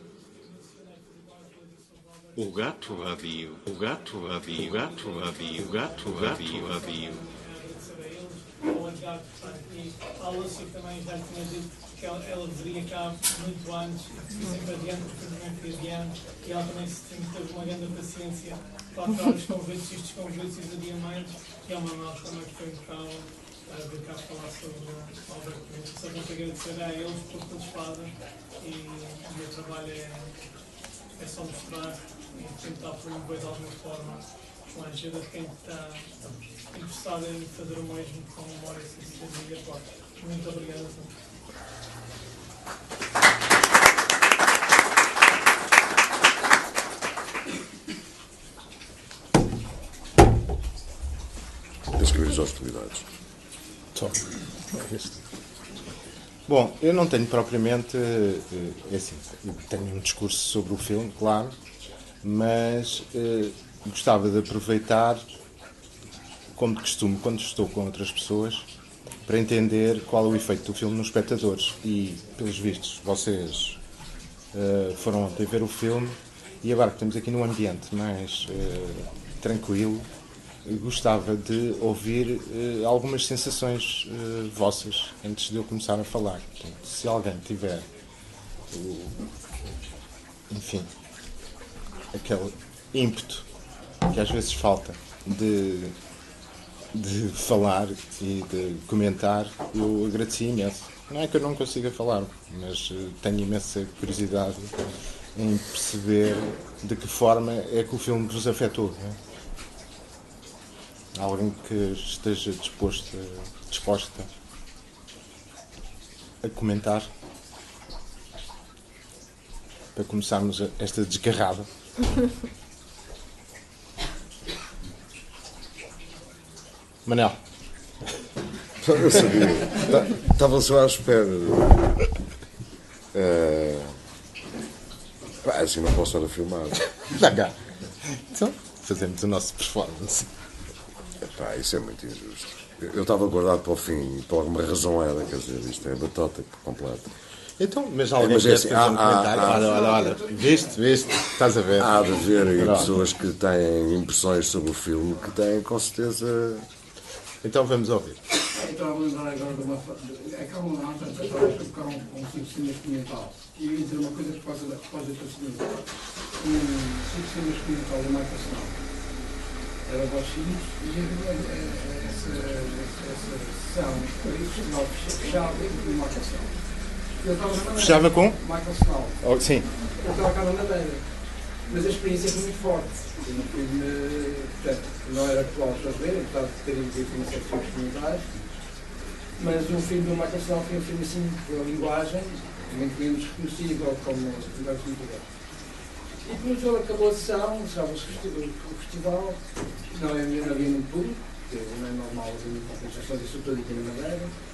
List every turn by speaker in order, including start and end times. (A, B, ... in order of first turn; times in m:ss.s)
0:00.3-0:02.4 A
0:02.4-0:07.2 B
0:05.1-0:30.5 A
0:31.1-0:41.1 A
0:51.9-0:53.1 C
0:54.7-0:55.1 D
0:56.5-1:01.6 D
1:02.2-1:05.2 D
1:06.6-1:08.7 D
1:09.2-1:13.8 D
1:14.5-1:20.1 D
1:20.6-1:27.9 D
1:28.7-1:29.3 D
1:30.5-1:30.9 D
1:32.1-1:33.5 D
1:34.0-1:36.0 D
1:36.9-1:44.8 D
1:45.4-1:49.2 D
1:51.1-1:54.3 D
1:56.4-1:57.1 D
1:59.9-2:01.7 D
2:07.0-2:07.4 D
2:08.8-2:12.1 C
2:13.1-2:14.0 C
2:15.4-2:16.9 C
2:17.1-2:20.3 D
2:21.2-2:27.1 C
2:27.6-2:33.0 D
2:28.2-2:29.7 C
2:29.5-2:31.0 E
2:31.8-2:36.7 C
2:37.4-2:38.3 D
2:38.5-2:48.8 E
2:49.8-2:59.2 E
2:57.8-2:58.4 D
2:59.2-2:59.8 D
2:59.8-3:08.5 E
3:09.4-3:15.3 E
3:16.2-3:24.3 E